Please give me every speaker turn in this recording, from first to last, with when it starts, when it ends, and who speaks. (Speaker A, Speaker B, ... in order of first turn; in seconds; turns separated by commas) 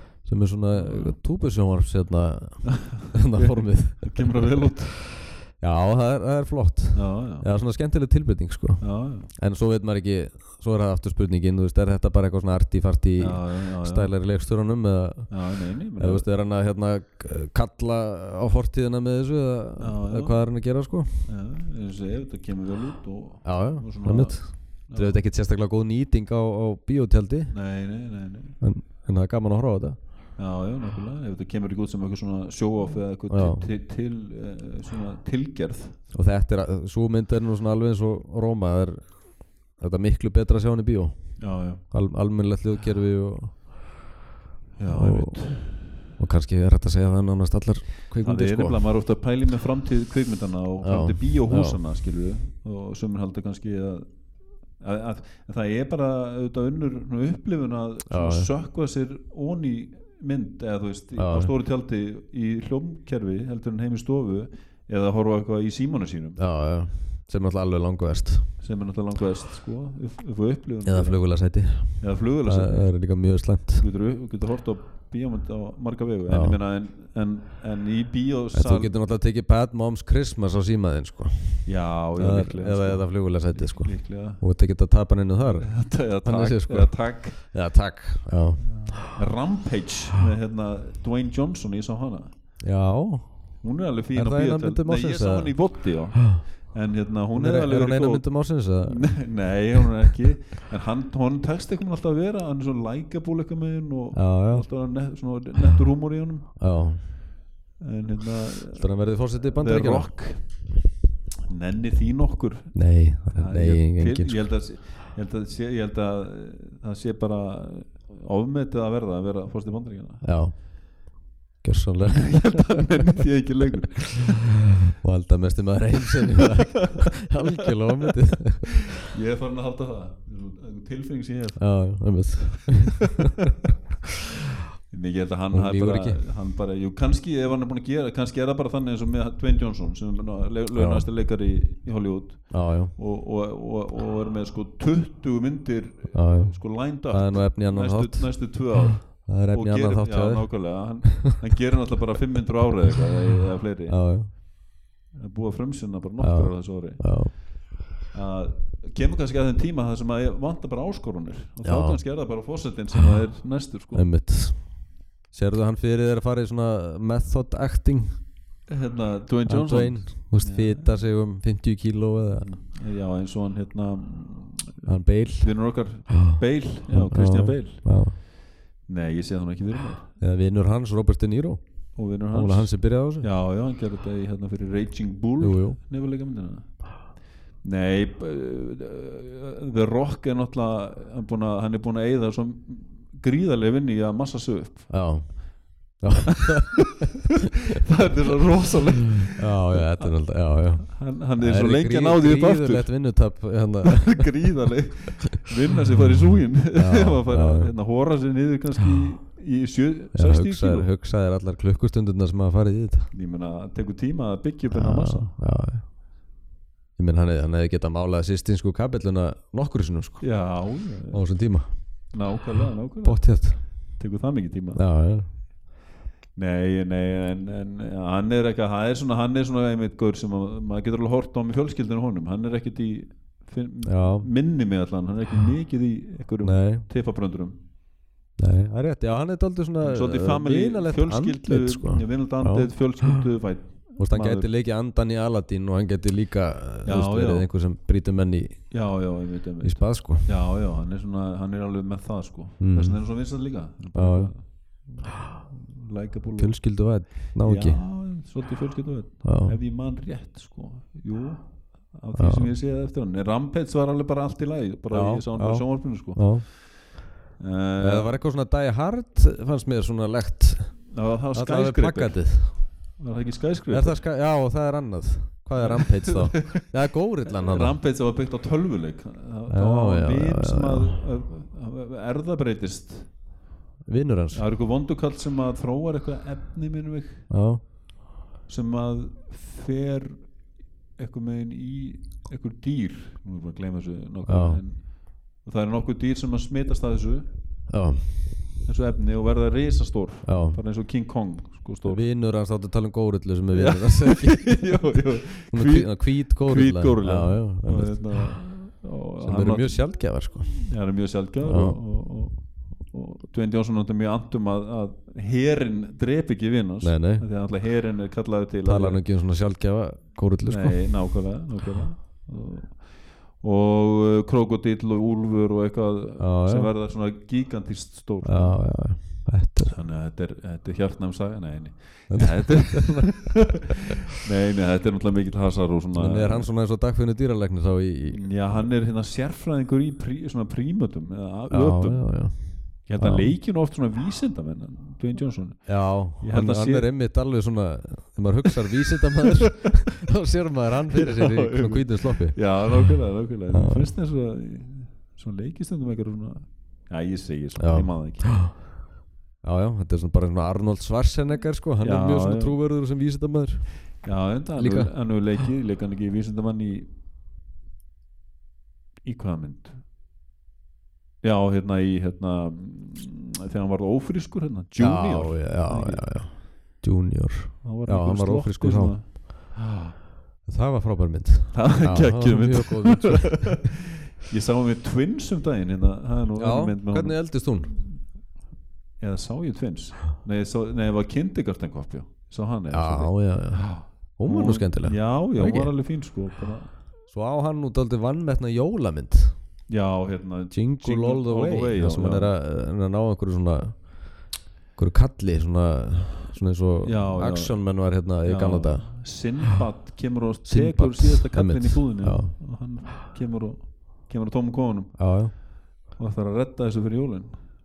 Speaker A: 0.2-4.4, Speaker B: 0.7-1.2, Speaker B: 3.0-5.0, Speaker A: 5.4-21.3, Speaker B: 6.9-7.5, Speaker B: 8.8-9.3, Speaker B: 13.2-14.1, Speaker B: 15.3-16.2, Speaker B: 19.8-20.4, Speaker B: 21.2-25.2, Speaker A: 23.4-27.6, Speaker B: 27.5-28.6, Speaker A: 28.6-30.0, Speaker B: 30.4-36.0, Speaker A: 33.3-33.7, Speaker A: 36.1-43.8, Speaker B: 41.4-41.8, Speaker B: 44.8-45.8, Speaker A: 44.9-48.9, Speaker B: 48.2-66.4, Speaker A: 50.8-51.8, Speaker A: 58.1-58.5, Speaker A: 61.1-61.5, Speaker A: 66.4-68.5, Speaker B: 68.6-73.0, Speaker A: 70.8-73.8, Speaker B: 73.7-78.9, Speaker A: 76.3-76.6, Speaker A: 78.5-89.0, Speaker B: 81.6-84.4, Speaker B: 85.6-87.5, Speaker B: 88.6-92.3, Speaker A: 92.6-93.6, Speaker B: 93.6-107.1, Speaker A: 94.1-96.4, Speaker A: 97.3-99.6, Speaker A: 104.1-104.7, Speaker A: 106.6-107.1, Speaker B: 107.8-110.8, Speaker A: 108.7-110.1, Speaker B: 111.5-120.2, Speaker A: 112.7-114.4, Speaker A: 120.2-120.7, Speaker A: 121.6-122.8, Speaker B: 122.1-124.5, Speaker A: 124.8-128.9, Speaker B: 126.4-127.0, Speaker B: 128.9-132.2, Speaker A: 131.6-133.3, Speaker B: 134.9-154.5, Speaker A: 135.5-136.2, Speaker A: 140.7-141.1, Speaker A: 142.5-142.9, Speaker A: 146.1-151.3, Speaker A: 153.9-154.3, Speaker B: 155.1-157.5, Speaker A: 156.2-157.4, Speaker B: 158.1-164.1, Speaker A: 161.6-162.0, Speaker A: 163.9-168.2, Speaker B: 168.7-171.0, Speaker A: 169.5-172.5, Speaker B: 172.4-178.2, Speaker A: 174.8-178.2, Speaker B: 178.8-180.1, Speaker A: 180.2-183.3, Speaker B: 181.9-187.1, Speaker A: 185.4-185.8, Speaker B: 187.6-195.3, Speaker A: 194.9-197.1, Speaker B: 197.8-200.1, Speaker A: 199.4-204.4, Speaker B: 200.8-203.0, Speaker B: 203.8-210.9, Speaker A: 206.7-207.7, Speaker A: 210.1-213.1, Speaker B: 213.1-215.3, Speaker A: 214.7-215.9, Speaker A: 217.0-221.7, Speaker B: 220.2-221.2, Speaker B: 222.1-224.8, Speaker A: 223.0-223.7, Speaker A: 224.7-225.3, Speaker B: 226.3-237.6, Speaker A: 233.8-234.3, Speaker A: 236.4-236.9, Speaker A: 238.4-243.2, Speaker B: 239.8-244.5, Speaker A: 244.0-249.0, Speaker B: 246.8-247.5, Speaker B: 248.7-266.6, Speaker A: 249.6-250.3, Speaker A: 252.6-253.2, Speaker A: 253.9-254.3, Speaker A: 256.4-257.9, Speaker A: 259.2-259.6, Speaker A: 262.2-262.5, Speaker A: 264.9-266.5, Speaker B: 267.4-268.1, Speaker A: 267.8-272.7, Speaker B: 270.9-274.0, Speaker A: 273.7-277.8, Speaker B: 275.6-276.7, Speaker B: 277.3-283.1, Speaker A: 279.5-281.0, Speaker A: 283.9-284.4, Speaker B: 284.3-287.3, Speaker A: 287.3-287.6, Speaker B: 288.5-290.3, Speaker B: 290.9-297.3, Speaker A: 294.2-294.6, Speaker A: 297.7-298.4, Speaker B: 298.6-302.0, Speaker A: 300.2-300.6, Speaker A: 301.9-308.4, Speaker B: 303.5-319.0, Speaker A: 309.2-310.7, Speaker A: 311.4-311.8, Speaker A: 316.8-317.3, Speaker A: 318.6-320.9, Speaker B: 320.5-336.5, Speaker A: 326.2-326.7, Speaker A: 328.2-329.8, Speaker A: 332.1-333.1, Speaker A: 335.9-338.7, Speaker B: 338.1-346.9, Speaker A: 341.5-343.3, Speaker A: 345.6-352.9, Speaker B: 350.9-358.4, Speaker A: 353.5-353.9, Speaker A: 357.6-358.6, Speaker A: 359.4-364.1, Speaker B: 361.8-362.6, Speaker B: 364.0-366.9, Speaker A: 364.6-364.9, Speaker B: 369.0-369.8, Speaker B: 371.2-376.2, Speaker A: 374.8-379.1, Speaker B: 377.6-379.9, Speaker A: 380.4-383.7, Speaker B: 381.5-387.4, Speaker A: 386.4-387.7, Speaker B: 389.0-396.7, Speaker A: 392.7-395.7, Speaker A: 397.1-399.4, Speaker B: 399.7-402.3, Speaker A: 400.5-404.1, Speaker A: 404.8-408.9, Speaker B: 406.8-417.4, Speaker A: 410.4-412.3, Speaker A: 415.0-415.3